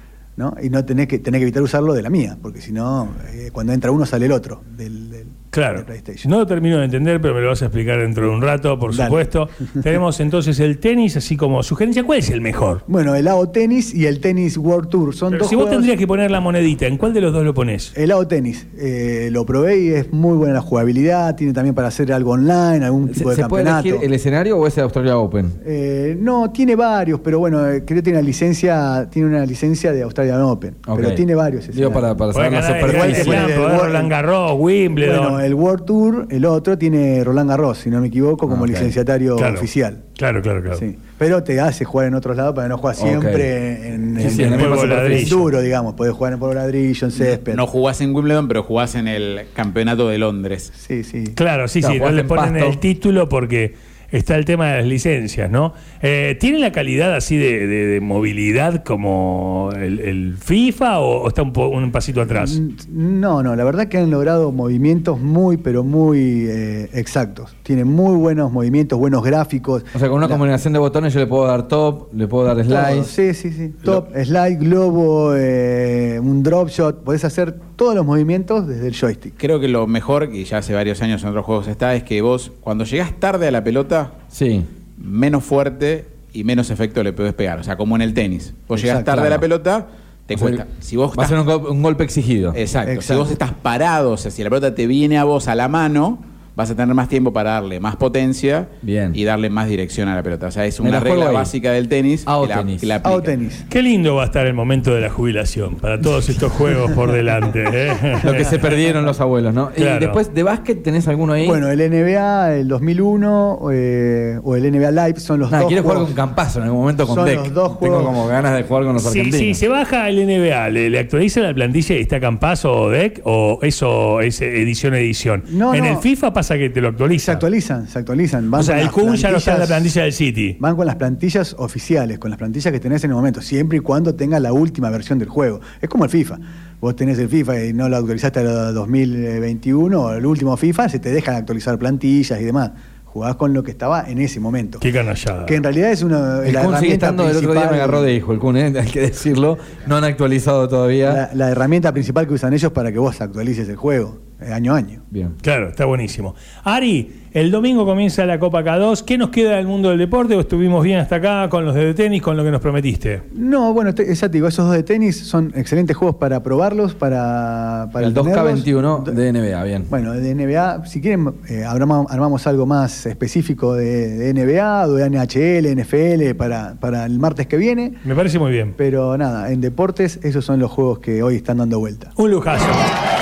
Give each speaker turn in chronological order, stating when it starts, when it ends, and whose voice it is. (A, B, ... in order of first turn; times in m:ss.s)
0:00.4-0:06.3 A
0:05.5-0:12.8 B
0:08.9-0:09.2 A
0:12.9-0:15.9 A
0:15.3-0:17.9 B
0:17.9-0:24.1 A
0:23.1-0:25.6 C
0:25.6-0:32.1 A
0:30.9-0:31.2 C
0:31.7-0:33.5 C
0:32.3-0:35.4 B
0:32.8-0:34.1 A
0:34.9-0:40.0 A
0:38.5-0:38.9 C
0:39.4-0:40.8 B
0:40.7-0:47.6 A
0:43.0-0:43.5 C
0:44.2-0:45.4 C
0:44.2-0:45.4 B
0:47.1-0:50.7 D
0:50.8-0:51.4 A
0:51.3-1:02.6 B
0:51.8-0:52.8 C
1:02.2-1:10.4 A
1:09.9-1:13.1 C
1:12.7-1:19.3 A
1:19.4-1:24.1 D
1:24.3-1:24.7 C
1:25.0-1:31.4 D
1:28.7-1:29.2 A
1:29.1-1:29.4 C
1:30.3-1:32.6 C
1:32.5-1:43.3 D
1:32.8-1:33.3 A
1:38.8-1:39.2 C
1:40.8-1:41.5 C
1:42.2-1:42.9 C
1:43.0-1:43.6 A
1:43.7-1:48.5 B
1:46.0-1:47.0 A
1:48.2-1:48.5 A
1:48.3-1:51.6 C
1:49.8-1:50.2 B
1:51.4-1:56.1 A
1:55.5-1:59.6 C
1:57.0-1:58.3 A
1:59.0-2:07.4 B
2:05.4-2:06.1 A
2:07.1-2:09.9 A
2:08.5-2:10.6 B
2:10.6-2:24.8 A
2:24.8-2:25.6 B
2:25.4-2:28.1 A
2:26.4-2:31.2 C
2:31.0-2:35.0 A
2:35.4-2:43.2 B
2:43.3-2:49.2 A
2:48.0-2:49.9 C
2:49.9-2:58.0 A
2:58.0-2:58.8 B
2:58.8-3:02.1 A
3:02.2-3:02.8 B